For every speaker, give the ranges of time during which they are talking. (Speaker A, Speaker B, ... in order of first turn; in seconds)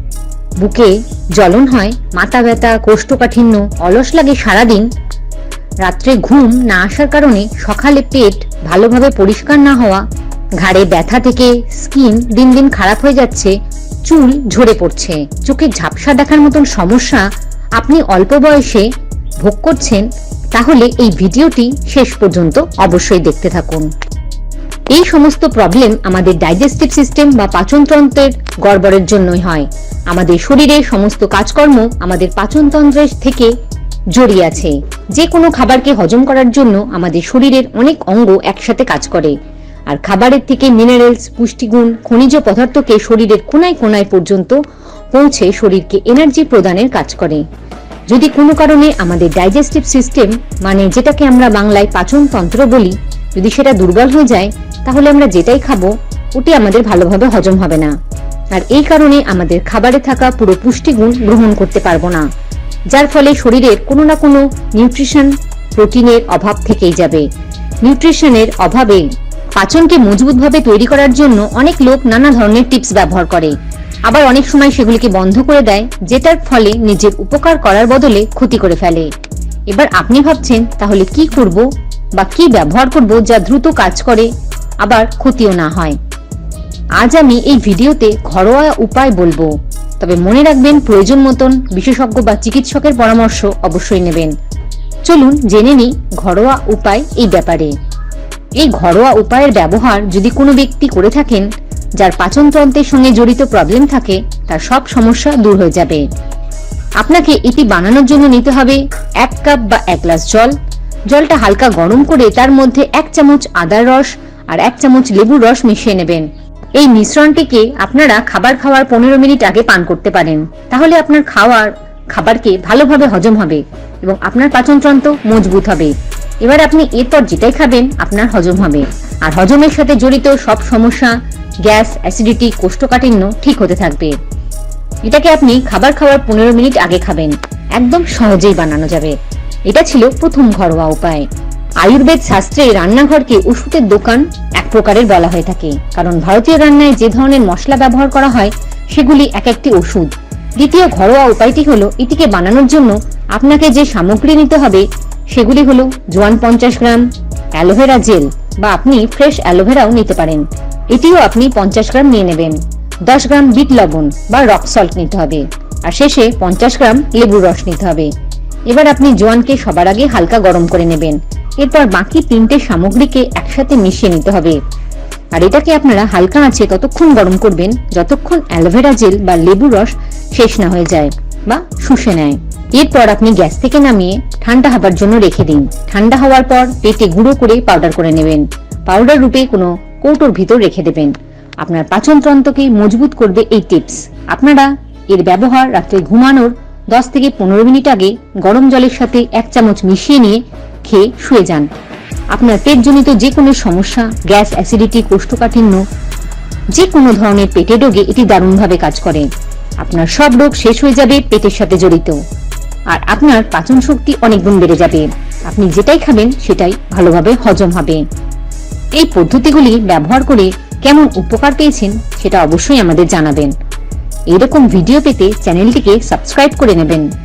Speaker A: 0.6-4.9, 5.8-10.1, 10.6-13.5, 14.1-17.3, 17.8-18.9, 19.4-23.9, 24.9-33.5, 34.1-39.3, 39.9-44.6, 45.1-47.4, 48.1-57.9, 58.5-62.2, 62.9-67.2, 67.8-69.1, 69.6-73.5, 74.1-79.1, 79.7-81.6, 82.2-84.3, 84.8-86.0, 87.0-94.3, 95.0-97.7, 98.6-101.5, 102.0-106.0, 107.0-110.5, 111.1-134.2, 135.1-139.2, 139.7-141.3, 141.8-168.1, 168.7-174.6, 175.3-201.7, 202.3-205.8, 206.7-209.3, 209.8-212.2, 212.9-218.0, 219.0-223.5, 224.3-227.1